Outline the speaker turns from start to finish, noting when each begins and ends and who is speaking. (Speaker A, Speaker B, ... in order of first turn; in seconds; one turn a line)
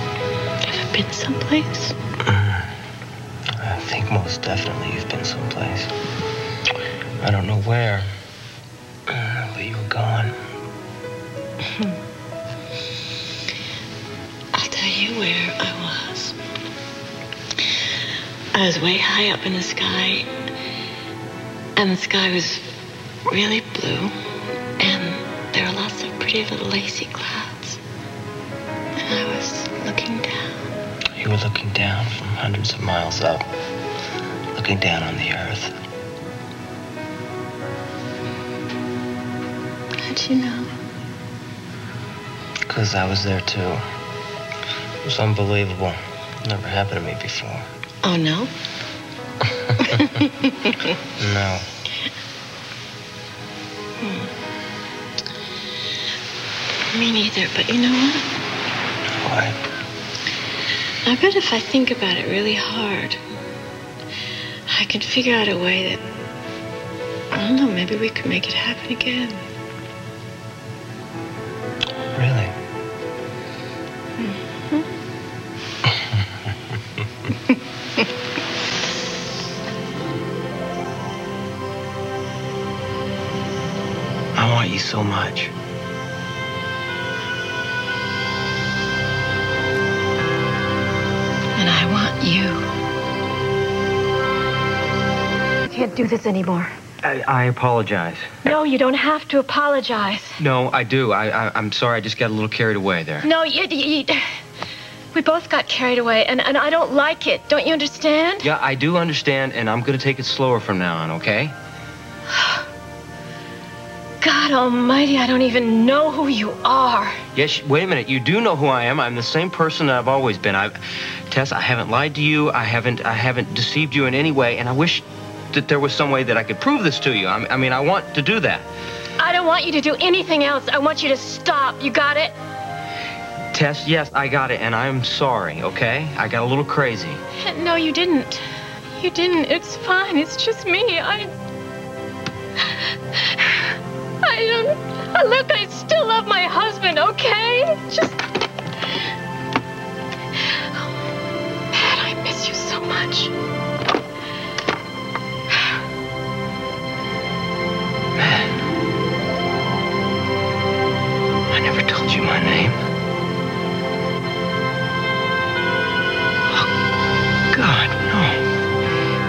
Speaker A: 0.6-1.9
Speaker B: 2.2-2.7
Speaker B: 3.6-5.9
Speaker B: 7.2-8.1
Speaker B: 9.1-10.4
Speaker A: 14.5-16.4
Speaker A: 18.5-20.3
Speaker A: 21.8-22.7
Speaker A: 23.3-24.1
Speaker A: 24.8-27.8
Speaker A: 29.0-30.7
Speaker B: 31.2-33.5
Speaker B: 34.5-35.8
Speaker A: 40.0-40.7
Speaker B: 42.7-43.8
Speaker B: 45.0-47.7
Speaker A: 48.0-48.5
Speaker A: 49.8-50.9
Speaker B: 51.2-51.7
Speaker A: 54.0-54.3
Speaker A: 56.9-58.3
Speaker B: 59.1-59.6
Speaker A: 61.0-63.2
Speaker A: 64.7-66.0
Speaker A: 67.3-69.4
Speaker B: 72.1-72.5
Speaker A: 74.2-74.8
Speaker B: 84.4-85.5
Speaker A: 91.6-92.7
Speaker A: 95.7-96.8
Speaker B: 97.0-98.5
Speaker A: 98.5-100.4
Speaker B: 100.4-103.3
Speaker A: 103.2-104.2
Speaker A: 105.1-108.5
Speaker B: 108.4-111.5
Speaker A: 112.4-112.6
Speaker A: 114.2-117.2
Speaker B: 117.3-128.7
Speaker A: 129.2-132.4
Speaker B: 133.5-137.2
Speaker A: 137.4-138.5
Speaker A: 139.0-141.3
Speaker A: 142.7-148.2
Speaker A: 150.5-150.9
Speaker A: 151.7-153.3
Speaker B: 158.2-158.5
Speaker B: 161.5-162.8
Speaker B: 167.5-168.5